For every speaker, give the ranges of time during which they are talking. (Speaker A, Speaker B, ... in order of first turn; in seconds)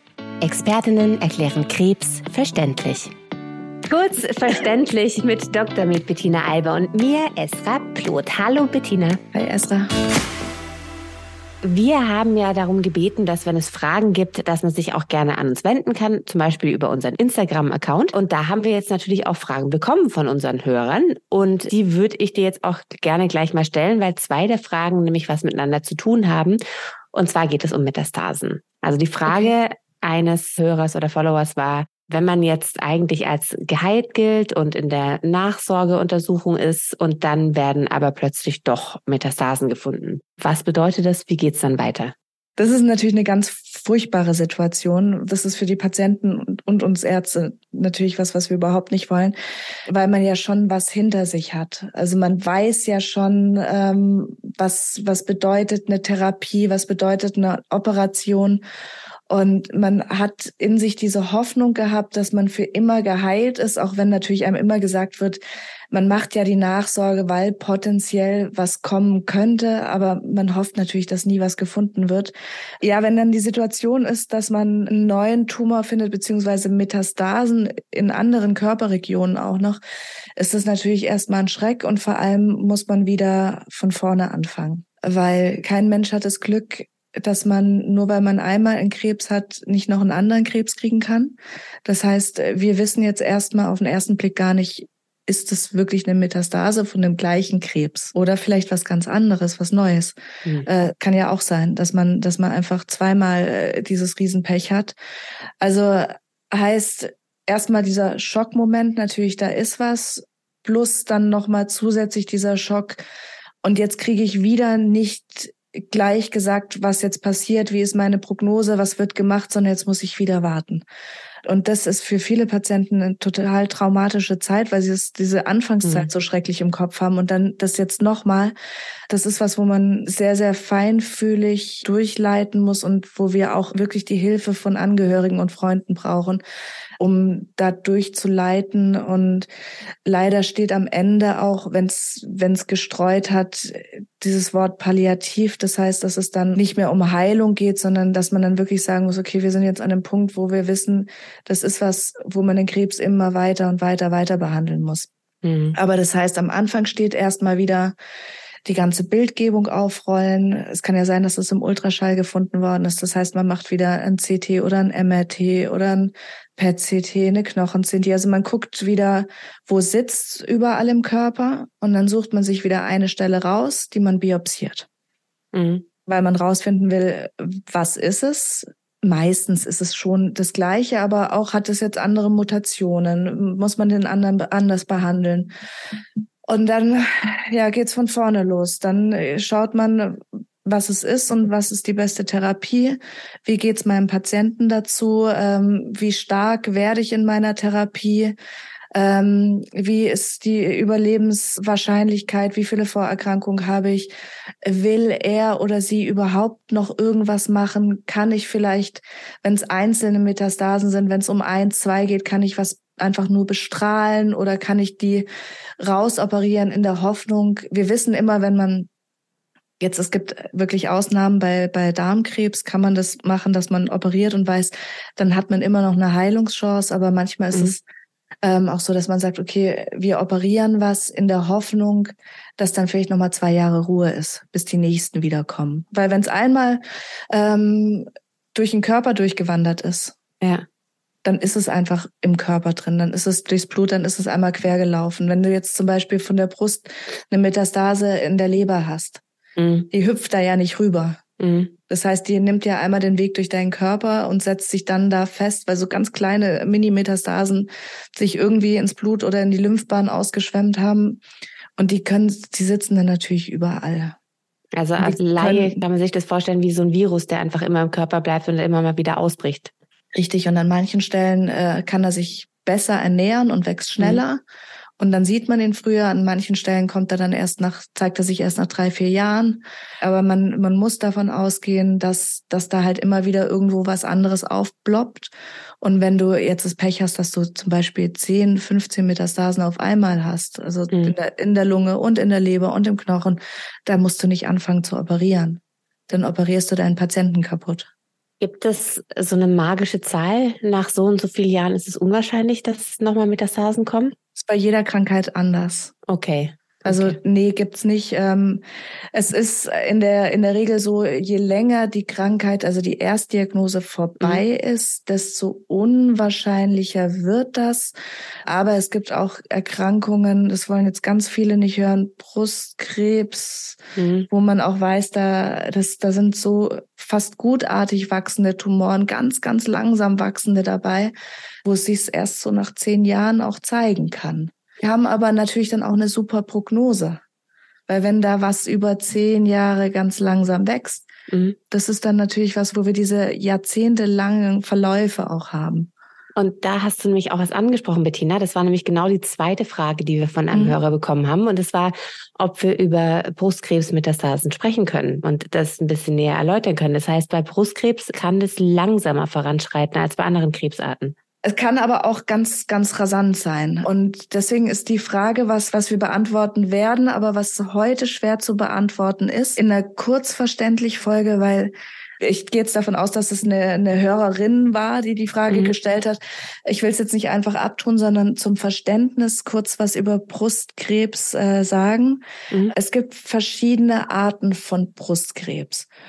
Speaker A: 0.4-3.1, 3.9-9.2, 11.6-26.6, 27.1-42.1, 155.4-155.8, 175.5-175.8, 249.6-249.9, 251.4-251.7, 264.8-269.7, 298.4-304.1, 306.1-307.2, 324.0-324.3, 341.3-341.6, 346.4-361.1, 375.5-375.7
Speaker B: 9.3-9.9, 29.2-29.5, 42.6-49.4, 49.9-58.6, 59.3-65.4, 65.9-79.8, 80.4-105.0, 105.6-113.0, 113.6-120.8, 121.4-128.5, 129.1-136.4, 137.0-139.5, 140.1-155.1, 155.7-157.9, 158.6-174.9, 176.1-185.5, 186.4-198.3, 198.9-204.1, 204.6-215.3, 215.8-218.9, 219.8-227.8, 228.4-240.2, 241.2-249.2, 249.9-251.2, 251.9-261.2, 261.8-264.2, 265.0-265.8, 270.1-274.4, 275.0-297.9, 304.3-305.9, 306.9-308.6, 309.1-317.9, 318.4-331.1, 331.6-337.2, 337.9-341.1, 341.7-345.9, 350.5-350.8, 361.4-385.9